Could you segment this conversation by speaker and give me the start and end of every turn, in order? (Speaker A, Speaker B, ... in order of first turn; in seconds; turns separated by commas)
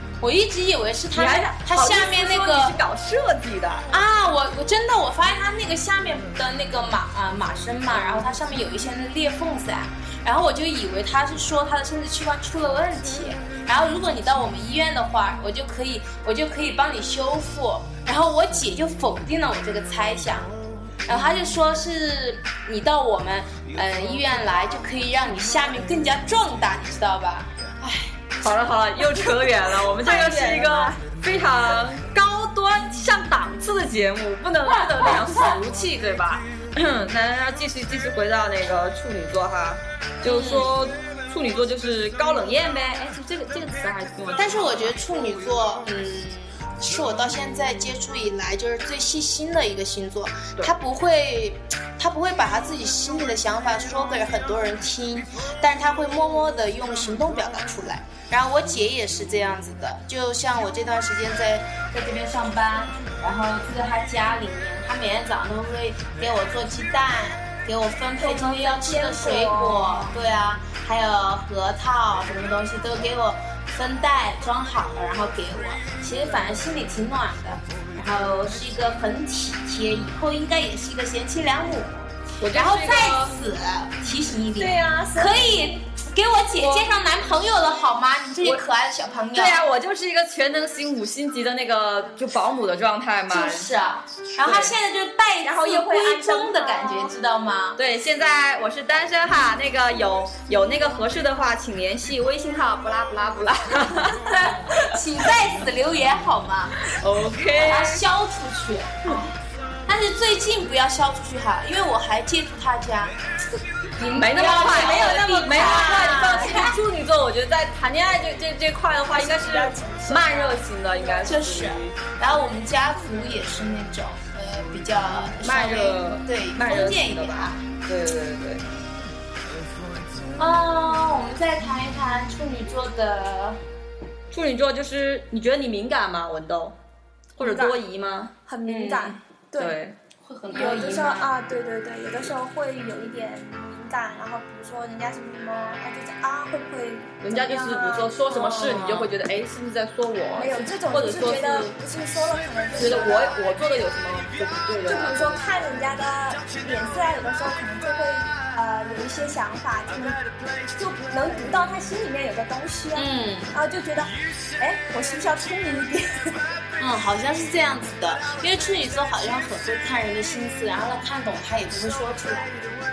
Speaker A: 0.2-2.8, Speaker B: 1.1-3.9, Speaker A: 3.9-28.3, Speaker B: 28.4-45.0, Speaker C: 29.2-31.0, Speaker A: 34.9-35.6, Speaker A: 40.2-40.7, Speaker A: 44.4-89.6, Speaker C: 68.2-70.1, Speaker B: 82.4-83.4, Speaker C: 84.6-85.8, Speaker B: 89.3-93.7, Speaker A: 93.3-97.8, Speaker B: 94.4-94.8, Speaker C: 95.4-97.1, Speaker B: 97.8-104.8, Speaker A: 104.7-107.0, Speaker B: 106.9-108.0, Speaker A: 107.5-113.2, Speaker A: 114.0-116.8, Speaker B: 114.1-121.9, Speaker C: 114.4-116.5, Speaker C: 119.1-121.3, Speaker A: 121.2-127.6, Speaker B: 125.4-128.6, Speaker A: 130.4-133.6, Speaker B: 134.3-136.8, Speaker B: 137.4-138.3, Speaker C: 137.4-137.8, Speaker C: 138.5-139.8, Speaker A: 138.7-139.2, Speaker B: 139.6-140.0, Speaker A: 140.2-141.3, Speaker C: 140.5-148.7, Speaker B: 147.2-151.7, Speaker A: 148.3-149.1, Speaker C: 150.4-153.4, Speaker B: 152.8-155.4, Speaker C: 154.9-166.6, Speaker A: 162.9-163.5, Speaker A: 166.8-172.5